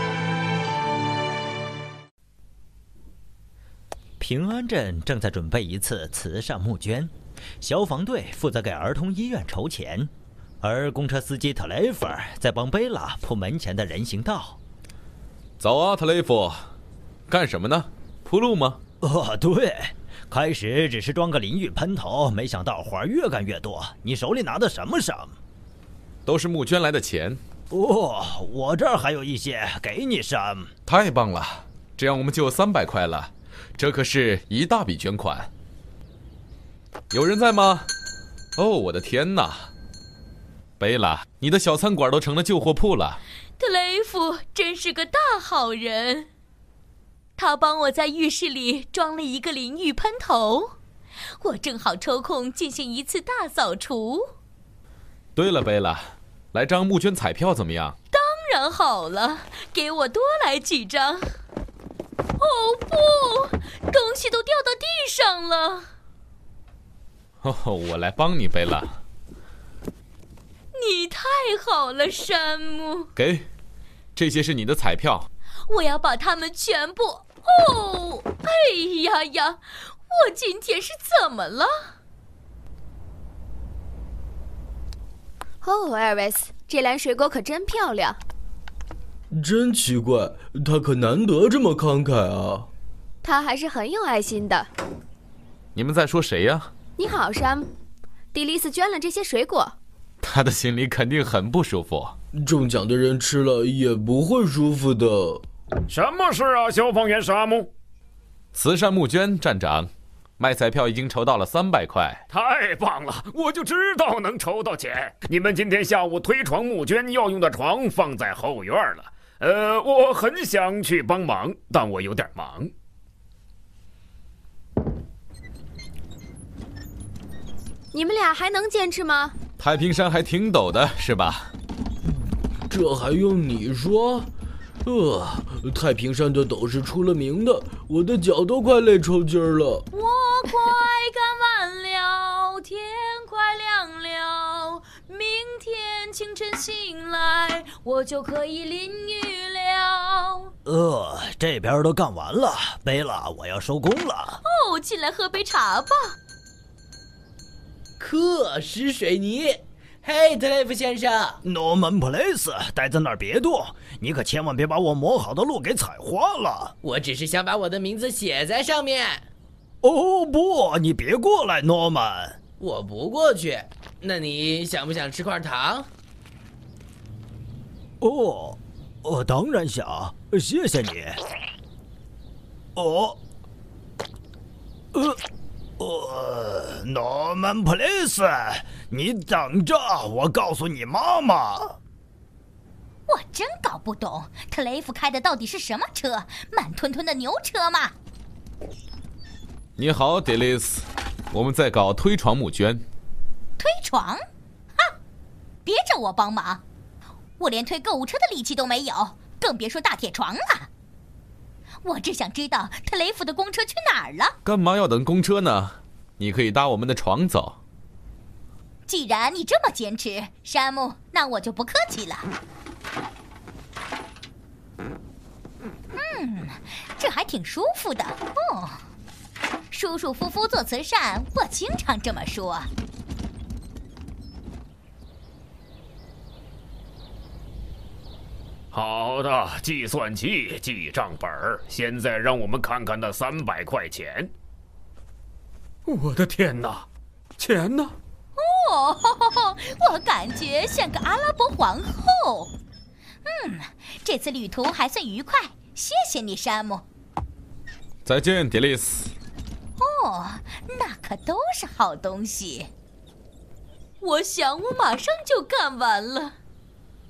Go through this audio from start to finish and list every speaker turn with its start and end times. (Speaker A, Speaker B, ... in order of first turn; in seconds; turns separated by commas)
Speaker A: 4.2-10.1, Speaker A: 10.6-14.6, Speaker B: 15.6-16.6, Speaker B: 17.3-18.8, Speaker A: 19.0-25.3, Speaker B: 26.2-27.4, Speaker A: 27.7-30.7, Speaker B: 30.9-35.5, Speaker B: 37.1-37.9, Speaker B: 38.6-39.7, Speaker B: 40.8-43.2, Speaker C: 43.6-46.3, Speaker C: 47.4-50.7, Speaker C: 51.4-54.3, Speaker B: 55.3-58.0, Speaker C: 58.1-61.3, Speaker C: 62.4-65.9, Speaker B: 67.4-69.0, Speaker C: 70.7-73.1, Speaker B: 73.2-73.5, Speaker B: 74.1-75.3, Speaker C: 75.7-81.7, Speaker D: 85.6-88.2, Speaker E: 89.3-92.7, Speaker D: 93.2-94.7, Speaker B: 95.7-96.7, Speaker D: 97.0-97.7, Speaker D: 98.3-99.8, Speaker B: 100.2-102.1, Speaker E: 102.3-105.4, Speaker F: 105.9-107.7, Speaker B: 108.5-112.2, Speaker F: 112.3-122.7, Speaker D: 127.9-129.3, Speaker B: 129.6-131.5, Speaker E: 132.1-134.3, Speaker E: 134.8-139.8, Speaker C: 139.9-150.5, Speaker A: 150.6-154.4, Speaker C: 154.4-156.1, Speaker G: 158.0-161.4, Speaker A: 161.4-166.7, Speaker G: 166.8-169.2, Speaker A: 169.8-172.4, Speaker G: 172.6-175.9, Speaker A: 178.0-181.2, Speaker A: 182.8-183.2, Speaker A: 185.8-191.8, Speaker H: 193.1-197.9, Speaker B: 199.8-202.8, Speaker H: 203.6-204.2, Speaker H: 205.7-206.6, Speaker H: 207.4-210.7, Speaker H: 211.8-214.3, Speaker B: 214.4-217.6, Speaker H: 218.9-222.3, Speaker H: 225.9-228.8, Speaker H: 229.7-232.7, Speaker F: 238.7-244.3, Speaker F: 245.9-246.8, Speaker F: 247.4-247.9, Speaker H: 248.4-252.5, Speaker H: 253.2-256.8, Speaker B: 258.0-259.1, Speaker H: 259.8-262.7, Speaker C: 264.0-266.3